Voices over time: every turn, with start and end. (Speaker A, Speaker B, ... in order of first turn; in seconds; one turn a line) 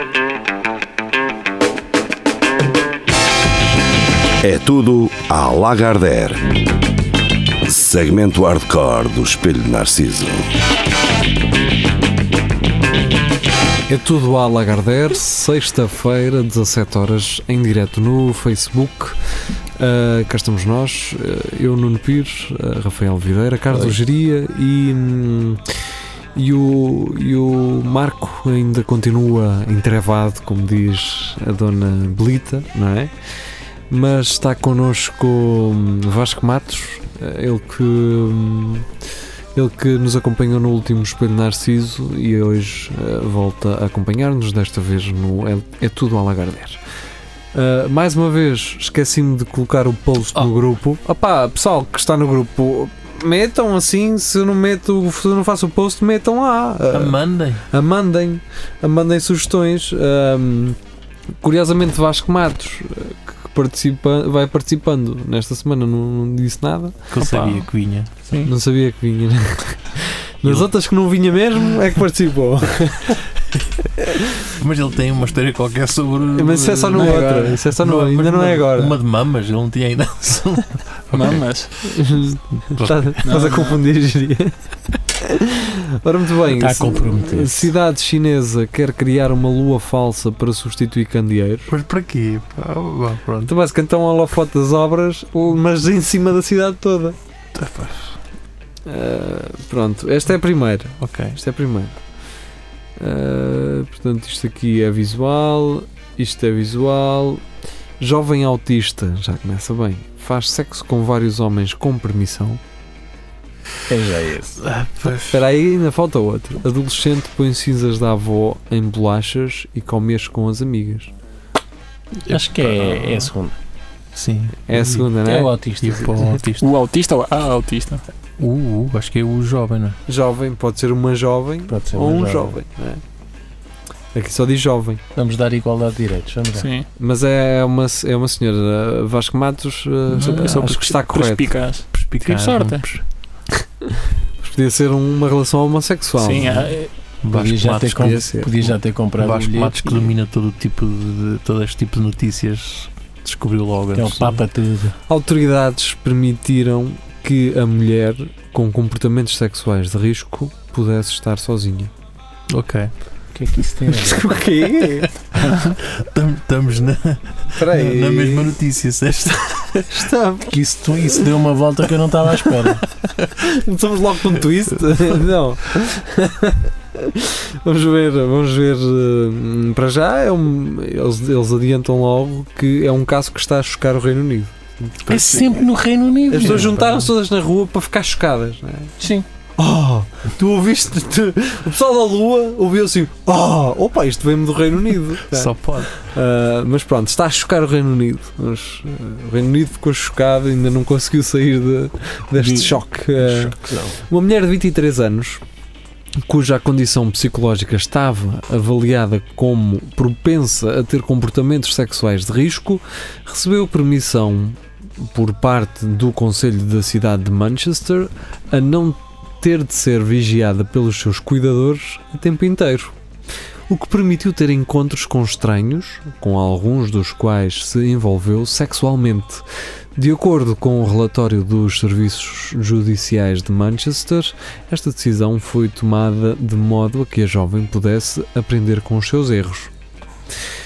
Speaker A: 4.4-6.6
Speaker A: 7.6-10.5
Speaker B: 13.9-19.2
Speaker B: 19.8-25.6
Speaker B: 26.3-33.1
Speaker B: 33.9-38.9
Speaker B: 39.5-46.8
Speaker B: 47.5-60.8
Speaker C: 56.9-57.6
Speaker B: 61.4-67.0
Speaker C: 67.1-68.1
Speaker D: 67.2-67.7
Speaker D: 68.3-68.5
Speaker B: 68.5-73.3
Speaker C: 74.5-81.9
Speaker B: 76.3-79.0
Speaker D: 81.1-81.7
Speaker B: 81.9-84.5
Speaker C: 82.6-83.2
Speaker D: 83.2-83.8
Speaker B: 85.3-91.7
Speaker E: 86.6-87.7
Speaker C: 91.7-93.5
Speaker B: 93.5-97.2
Speaker C: 97.5-98.2
Speaker B: 98.9-102.0
Speaker C: 101.0-101.4
Speaker B: 103.0-107.4
Speaker B: 108.0-112.6
Speaker E: 113.9-114.6
Speaker C: 114.6-115.4
Speaker B: 115.0-121.1
Speaker C: 122.2-123.3
Speaker E: 122.3-123.6
Speaker C: 124.1-125.1
Speaker B: 124.7-125.5
Speaker E: 125.2-126.4
Speaker C: 125.8-126.7
Speaker D: 126.6-128.0
Speaker C: 128.4-130.0
Speaker B: 130.1-133.0
Speaker E: 131.7-132.6
Speaker B: 134.1-135.0
Speaker E: 135.1-136.7
Speaker D: 136.6-136.9
Speaker B: 137.0-141.6
Speaker D: 140.1-142.9
Speaker C: 140.2-140.5
Speaker C: 141.9-143.0
Speaker B: 144.4-146.7
Speaker D: 146.2-146.9
Speaker C: 147.2-154.4
Speaker E: 147.3-150.1
Speaker B: 147.7-148.5
Speaker E: 153.9-154.9
Speaker B: 155.1-161.9
Speaker C: 162.5-162.9
Speaker E: 163.3-164.3
Speaker B: 163.9-165.1
Speaker C: 165.4-169.8
Speaker B: 167.5-168.6
Speaker B: 169.9-170.5
Speaker E: 170.5-172.8
Speaker B: 173.4-185.5
Speaker C: 185.1-185.5
Speaker E: 185.1-186.7
Speaker B: 186.3-188.9
Speaker C: 186.4-187.1
Speaker E: 189.0-189.2
Speaker B: 189.6-205.4
Speaker C: 195.3-196.0
Speaker E: 202.4-204.0
Speaker B: 206.2-222.9
Speaker B: 223.7-229.4
Speaker B: 229.9-239.7